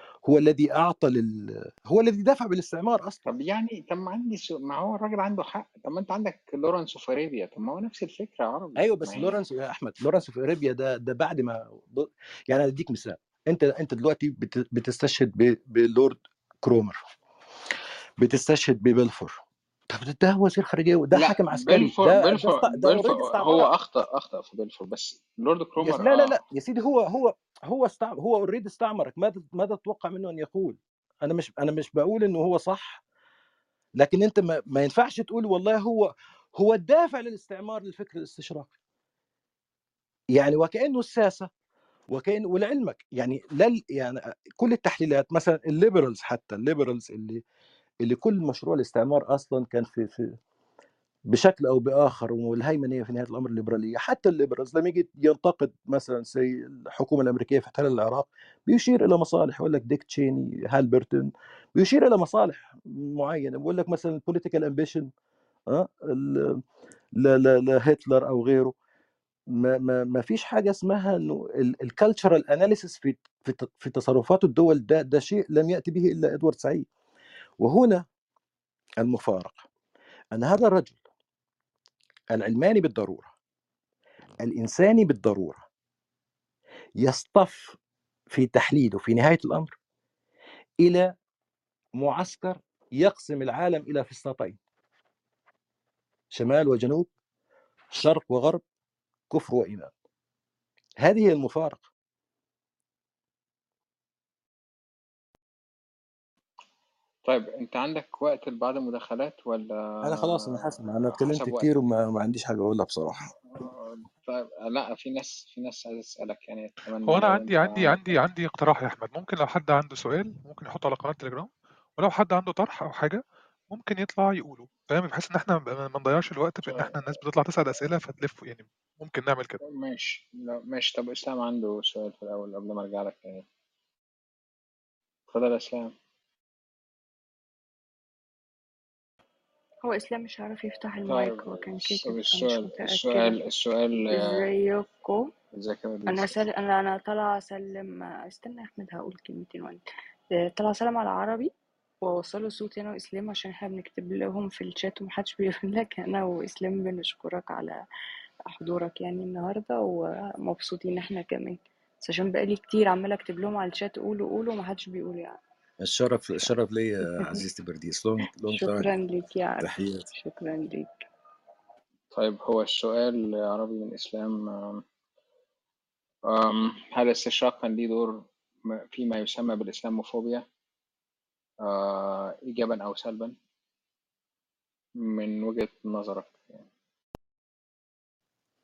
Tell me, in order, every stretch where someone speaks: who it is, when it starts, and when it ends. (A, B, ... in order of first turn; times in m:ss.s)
0:00.2-0:03.3 A
0:03.3-0:09.4 B
0:08.8-0:17.0 A
0:18.2-0:19.4 A
0:19.9-0:23.7 A
0:21.1-0:26.4 B
0:25.8-0:33.0 A
0:34.0-0:38.7 A
0:40.3-0:41.5 A
0:42.1-0:47.4 A
0:48.0-0:50.3 A
0:51.3-1:05.1 A
1:05.7-1:06.6 A
1:07.2-1:08.7 A
1:09.6-1:16.9 A
1:17.6-1:18.0 A
1:19.0-1:19.6 A
1:20.3-1:21.0 A
1:22.3-1:23.3 A
1:24.4-1:25.6 A
1:27.0-1:27.8 A
1:28.3-1:29.7 A
1:30.8-1:31.1 A
1:32.0-1:34.6 A
1:36.3-1:37.1 A
1:37.9-1:38.6 A
1:39.3-1:39.9 A
1:41.0-1:41.8 A
1:47.2-1:51.7 B
1:50.0-1:53.3 A
1:53.5-1:58.2 B
1:57.1-2:09.6 C
2:06.6-2:07.0 B
2:09.6-2:13.5 B
2:15.3-2:15.9 B
2:19.8-2:23.4 D
2:21.0-2:24.4 B
2:24.1-2:25.3 D
2:25.5-2:26.4 B
2:26.1-2:29.8 D
2:30.4-2:31.5 D
2:32.0-2:37.8 D
2:38.5-2:45.4 D
2:45.8-2:48.9 A
2:48.5-2:50.9 D
2:49.6-2:50.1 A
2:52.1-2:54.8 B
2:56.3-3:00.4 B
3:01.6-3:03.4 B
3:05.0-3:06.7 B